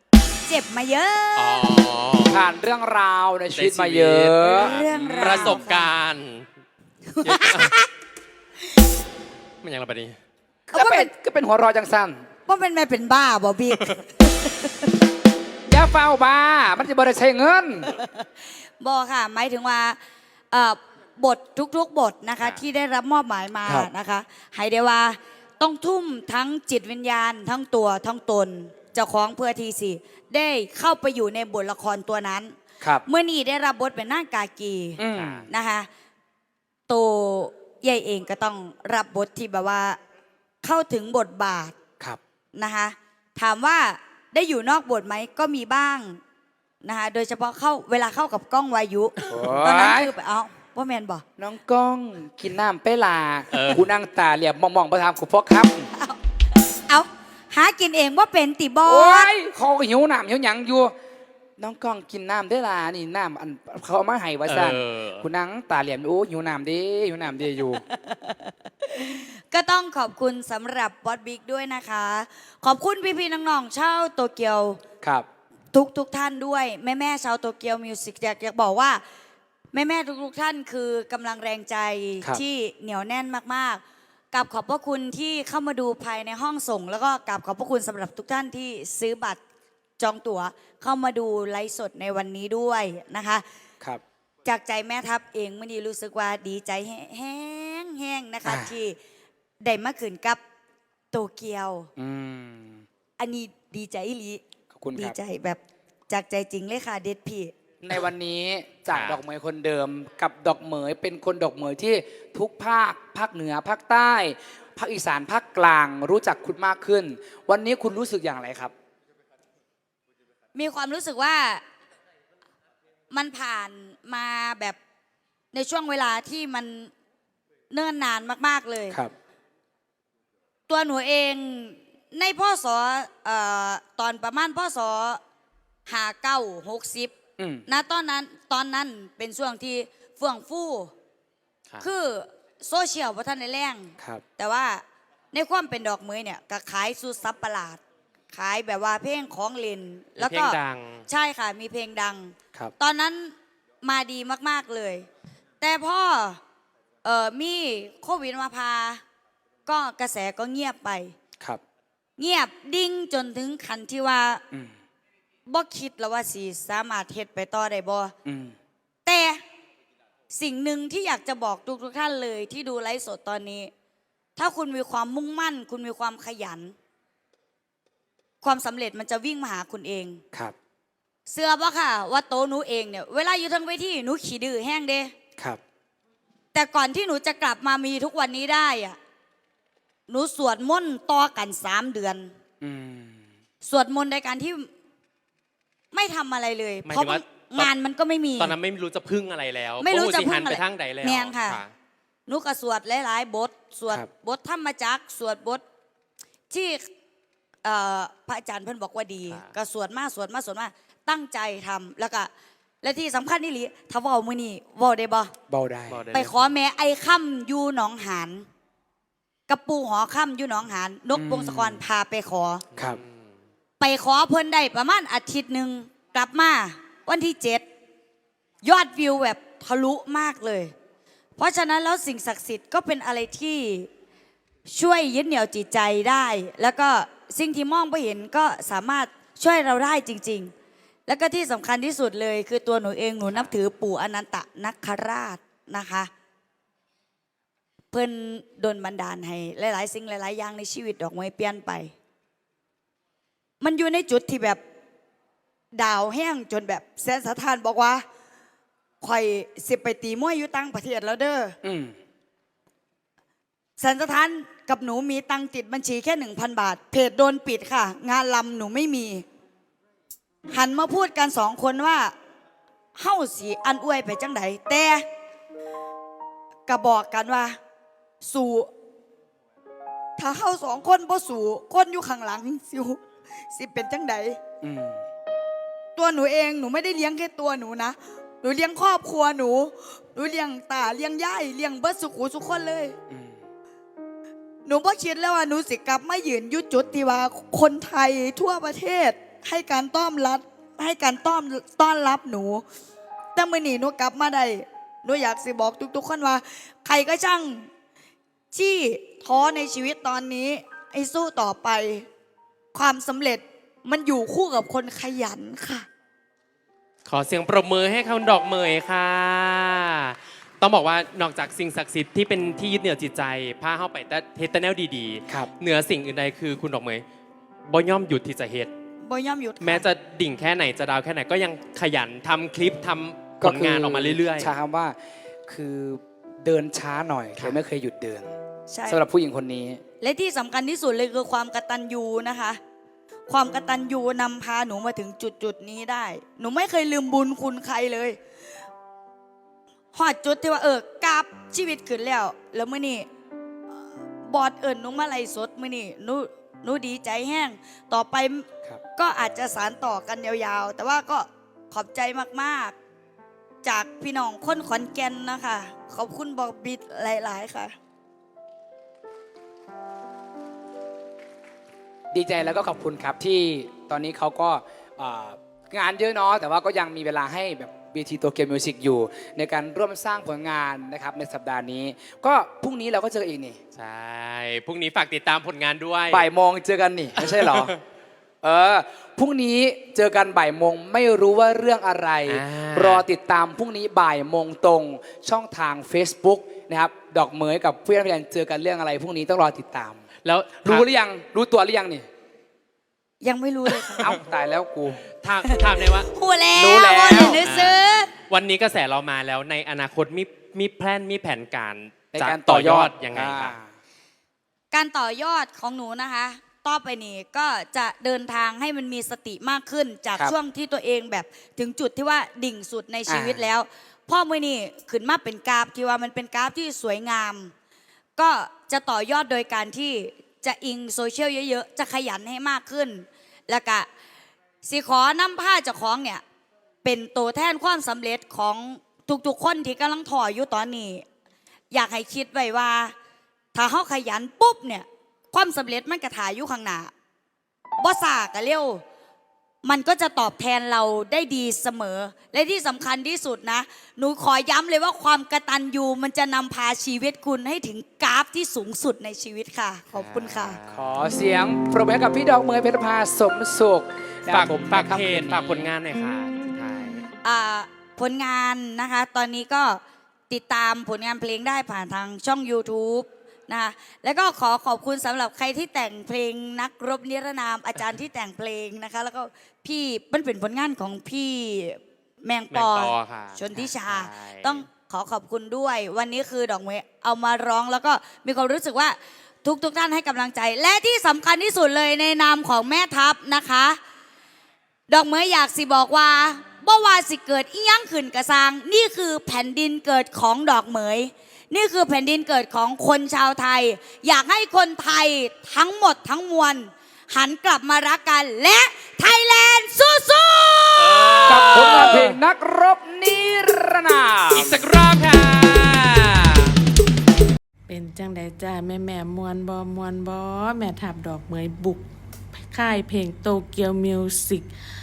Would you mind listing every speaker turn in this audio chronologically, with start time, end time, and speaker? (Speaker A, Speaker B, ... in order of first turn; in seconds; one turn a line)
Speaker A: 0.5-1.7
Speaker B: 1.4-2.4
Speaker C: 2.3-5.7
Speaker B: 3.5-6.5
Speaker A: 4.5-5.9
Speaker A: 7.1-7.9
Speaker B: 7.2-7.7
Speaker B: 9.6-10.2
Speaker C: 10.7-12.2
Speaker A: 10.7-11.1
Speaker A: 12.5-14.9
Speaker C: 15.7-17.9
Speaker A: 18.0-18.3
Speaker A: 18.8-20.0
Speaker A: 20.5-32.5
Speaker A: 33.1-35.9
Speaker C: 35.0-35.5
Speaker B: 35.1-35.5
Speaker A: 36.9-40.0
Speaker A: 40.6-41.8
Speaker A: 42.5-46.2
Speaker A: 46.8-51.2
Speaker C: 49.3-50.1
Speaker C: 51.4-55.9
Speaker B: 53.5-53.9
Speaker A: 56.9-59.4
Speaker C: 58.9-61.0
Speaker C: 61.6-67.8
Speaker B: 64.5-65.3
Speaker A: 67.9-74.8
Speaker A: 75.7-79.0
Speaker A: 79.7-83.8
Speaker A: 84.3-89.4
Speaker A: 90.0-93.4
Speaker A: 94.5-99.0
Speaker C: 98.5-98.7
Speaker A: 99.6-100.4
Speaker A: 101.1-101.9
Speaker C: 102.0-102.8
Speaker A: 103.2-104.4
Speaker C: 104.7-105.2
Speaker A: 105.0-107.5
Speaker C: 107.8-118.7
Speaker B: 108.9-109.2
Speaker A: 120.5-121.6
Speaker A: 123.1-124.8
Speaker A: 125.5-126.9
Speaker A: 127.7-129.0
Speaker A: 130.7-135.2
Speaker A: 135.9-137.2
Speaker C: 137.4-137.7
Speaker A: 137.7-140.9
Speaker A: 141.8-155.1
Speaker B: 150.2-151.1
Speaker A: 155.6-156.4
Speaker A: 157.0-159.0
Speaker A: 159.7-161.2
Speaker A: 162.2-164.4
Speaker A: 165.5-168.2
Speaker C: 168.2-168.6
Speaker A: 169.1-169.4
Speaker A: 170.3-173.7
Speaker A: 174.4-176.8
Speaker A: 178.4-180.2
Speaker A: 181.3-185.1
Speaker A: 186.5-189.0
Speaker A: 190.1-192.3
Speaker C: 192.6-193.3
Speaker A: 193.6-194.7
Speaker A: 195.9-198.6
Speaker B: 196.8-197.7
Speaker B: 198.4-201.7
Speaker A: 199.8-201.6
Speaker A: 202.3-205.6
Speaker A: 206.5-206.9
Speaker A: 207.6-212.3
Speaker B: 209.3-209.5
Speaker A: 212.8-215.3
Speaker C: 215.5-216.1
Speaker B: 215.9-216.5
Speaker A: 216.1-218.5
Speaker A: 219.5-222.6
Speaker C: 221.2-221.8
Speaker B: 222.7-223.4
Speaker A: 223.8-227.6
Speaker A: 228.6-230.7
Speaker A: 231.4-233.9
Speaker A: 234.7-240.5
Speaker A: 241.1-246.1
Speaker A: 247.9-251.9
Speaker A: 253.6-254.6
Speaker A: 255.7-258.1
Speaker A: 259.0-261.6
Speaker C: 261.6-262.0
Speaker A: 263.8-269.3
Speaker A: 270.5-272.1
Speaker A: 273.0-275.0
Speaker A: 276.7-277.6
Speaker A: 278.2-278.7
Speaker A: 280.2-283.0
Speaker A: 283.5-284.4
Speaker C: 284.6-285.0
Speaker A: 286.0-293.0
Speaker C: 293.1-293.4
Speaker A: 294.7-302.6
Speaker A: 303.4-307.7
Speaker A: 308.5-312.1
Speaker A: 312.7-315.9
Speaker B: 317.1-327.1
Speaker B: 327.7-328.7
Speaker A: 329.0-329.9
Speaker B: 329.6-334.5
Speaker C: 333.4-338.3
Speaker A: 338.7-339.0
Speaker C: 338.9-339.8
Speaker A: 340.0-342.6
Speaker A: 343.3-348.2
Speaker A: 349.9-353.1
Speaker A: 354.3-362.8
Speaker A: 363.6-367.8
Speaker C: 372.1-383.6
Speaker B: 383.7-386.2
Speaker C: 386.1-387.8
Speaker B: 387.2-387.8
Speaker C: 388.4-400.0
Speaker B: 392.3-393.1
Speaker B: 400.2-400.9
Speaker C: 400.6-402.1
Speaker A: 403.2-404.2
Speaker C: 404.0-405.1
Speaker B: 405.2-406.1
Speaker A: 405.4-408.1
Speaker C: 406.5-407.4
Speaker B: 407.4-413.6
Speaker C: 412.1-413.7
Speaker A: 414.7-427.5
Speaker C: 423.1-423.5
Speaker A: 428.2-433.9
Speaker A: 434.6-436.2
Speaker A: 436.8-441.1
Speaker A: 441.7-442.9
Speaker A: 443.5-446.9
Speaker A: 447.8-448.8
Speaker A: 449.6-460.6
Speaker B: 459.9-460.8
Speaker C: 460.7-465.7
Speaker B: 464.3-467.1
Speaker A: 467.2-493.8
Speaker B: 482.5-484.6
Speaker A: 494.9-511.9
Speaker B: 510.8-512.2
Speaker C: 511.3-514.6
Speaker B: 514.3-516.5
Speaker D: 517.7-524.5